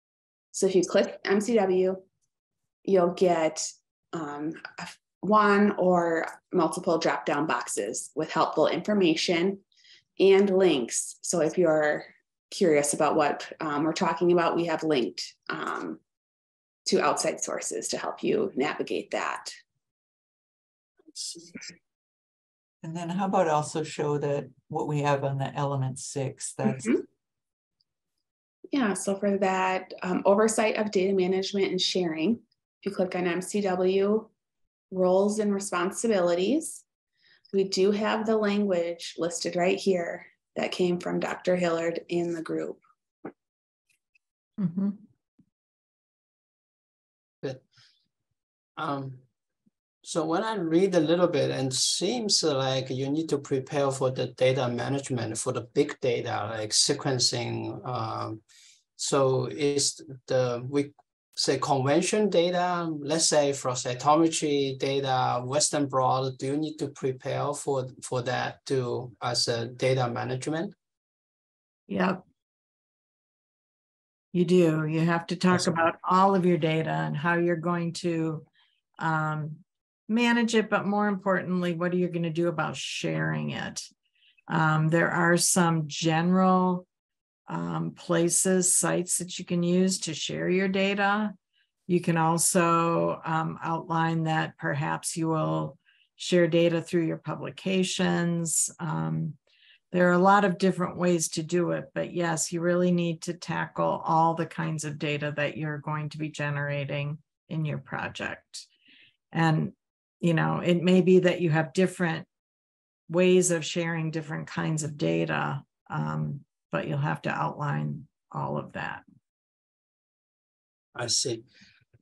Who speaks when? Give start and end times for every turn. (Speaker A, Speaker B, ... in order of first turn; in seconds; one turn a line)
Speaker A: 0.5-2.0
Speaker A: 2.8-9.6
Speaker A: 10.2-16.0
Speaker A: 16.9-19.5
Speaker B: 22.8-27.0
Speaker A: 26.6-27.0
Speaker A: 28.7-34.3
Speaker A: 34.9-36.8
Speaker A: 37.5-42.8
Speaker C: 44.6-45.0
Speaker D: 48.8-49.2
Speaker D: 50.0-58.4
Speaker D: 59.0-70.7
Speaker C: 71.9-72.2
Speaker C: 74.3-78.4
Speaker C: 79.0-83.8
Speaker C: 84.5-86.8
Speaker C: 87.5-91.3
Speaker C: 91.9-99.3
Speaker C: 99.9-108.7
Speaker C: 109.3-112.3
Speaker C: 113.1-119.0
Speaker D: 120.9-121.4